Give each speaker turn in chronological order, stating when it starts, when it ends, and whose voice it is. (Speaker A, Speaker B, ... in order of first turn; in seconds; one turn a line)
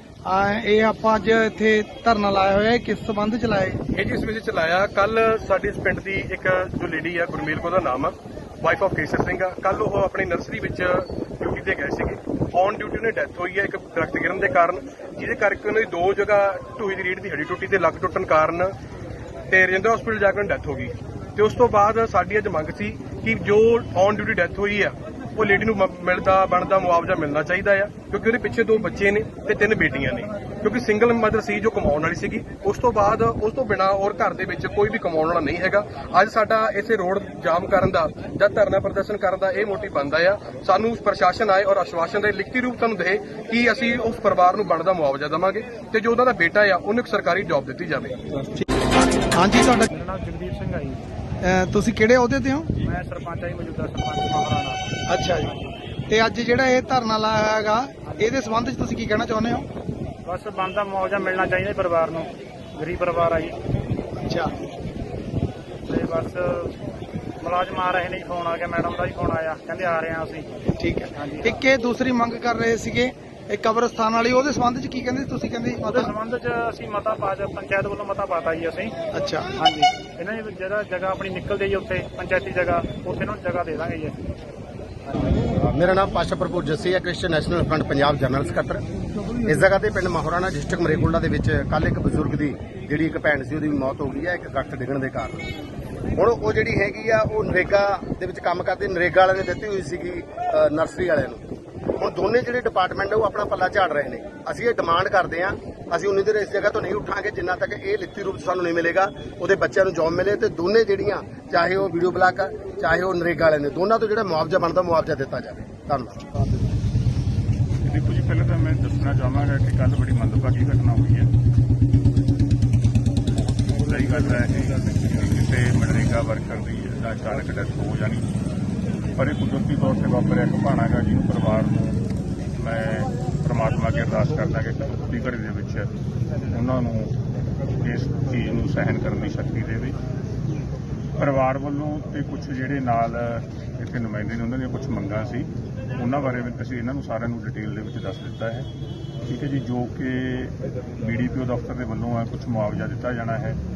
Speaker A: 0.3-3.8
Speaker B: 3.9-18.7
Speaker B: 19.5-48.3
Speaker A: 49.3-49.9
Speaker C: 49.9-51.0
Speaker A: 51.4-52.7
Speaker C: 52.8-54.8
Speaker A: 55.1-55.5
Speaker A: 56.1-59.7
Speaker C: 60.2-63.5
Speaker A: 64.2-64.5
Speaker C: 65.9-66.7
Speaker C: 67.4-70.5
Speaker A: 70.8-76.1
Speaker C: 71.1-71.6
Speaker C: 75.8-78.9
Speaker A: 79.1-79.5
Speaker C: 79.6-84.1
Speaker D: 85.7-88.8
Speaker D: 89.4-95.5
Speaker D: 96.1-101.4
Speaker D: 102.0-116.2
Speaker E: 117.8-121.3
Speaker E: 123.7-128.2
Speaker E: 129.2-132.0
Speaker E: 132.5-135.9
Speaker E: 136.5-137.1
Speaker E: 137.7-140.0
Speaker E: 141.2-148.7
Speaker E: 149.3-153.6